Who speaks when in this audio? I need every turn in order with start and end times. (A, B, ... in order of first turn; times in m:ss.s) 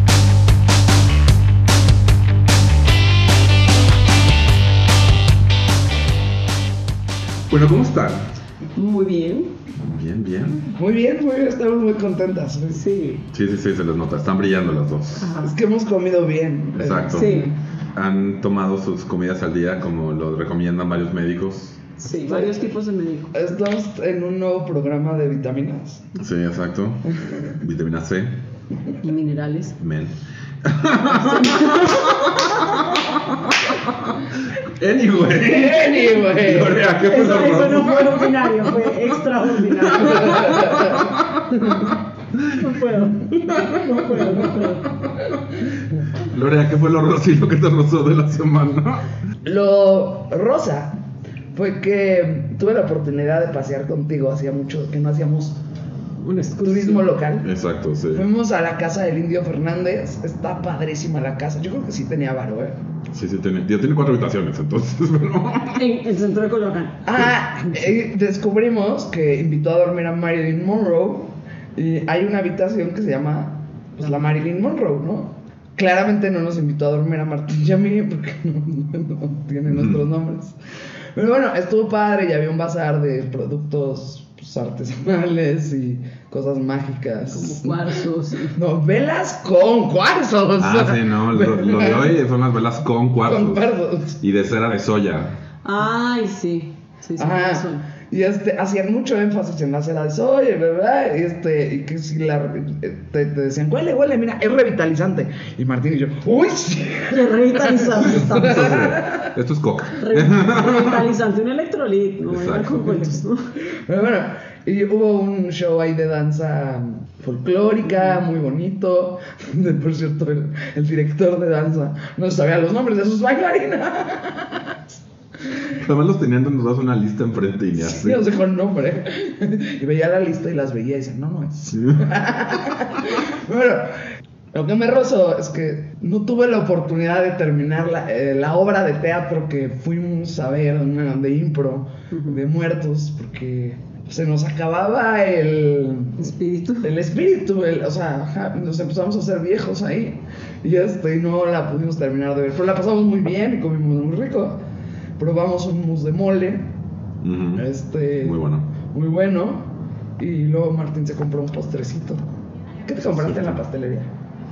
0:07.5-0:08.3 A
0:08.8-0:09.6 B
0:09.8-0:10.7 A
0:10.7-0:12.8 C
0:12.7-0:13.2 B
0:13.3-0:15.3 A
0:15.2-0:15.6 B
0:15.4-0:17.5 C
0:16.8-0:21.8 A
0:17.1-0:17.5 B
0:22.0-0:23.5 B
0:22.2-0:22.6 C
0:23.3-0:26.1 C
0:26.2-0:28.4 A
0:27.1-0:27.6 C
0:29.0-0:29.8 B
0:29.8-0:38.7 A
0:31.1-0:32.8 B
0:35.3-0:36.8 C
0:37.0-0:40.8 B
0:39.8-0:42.6 A
0:40.0-0:41.1 C
0:42.5-0:45.0 B
0:43.3-0:44.5 A
0:46.1-0:49.1 A
0:49.4-0:51.0 C
0:51.5-0:55.6 C
0:56.2-0:57.1 B
0:56.6-0:57.5 C
0:57.4-0:58.2 A
0:58.1-1:02.8 C
1:03.1-1:05.8 A
1:05.7-1:07.2 B
1:07.0-1:20.6 C
1:19.7-1:20.0 A
1:21.1-1:32.1 C
1:27.3-1:28.6 B
1:30.6-1:35.4 A
1:33.2-1:34.2 C
1:35.6-1:37.8 B
1:37.2-1:49.3 C
1:47.1-1:48.8 B
1:48.1-1:51.1 A
1:50.0-1:53.5 B
1:52.2-1:53.0 A
1:53.8-2:05.7 C
2:05.8-2:08.2 A
2:07.8-2:14.0 C
2:11.7-2:12.0 A
2:14.5-2:34.6 C
2:22.1-2:22.4 B
2:26.2-2:26.9 B
2:35.2-2:36.7 C
2:37.2-2:37.6 A
2:37.6-2:42.2 C
2:38.2-2:38.7 A
2:42.8-2:44.1 C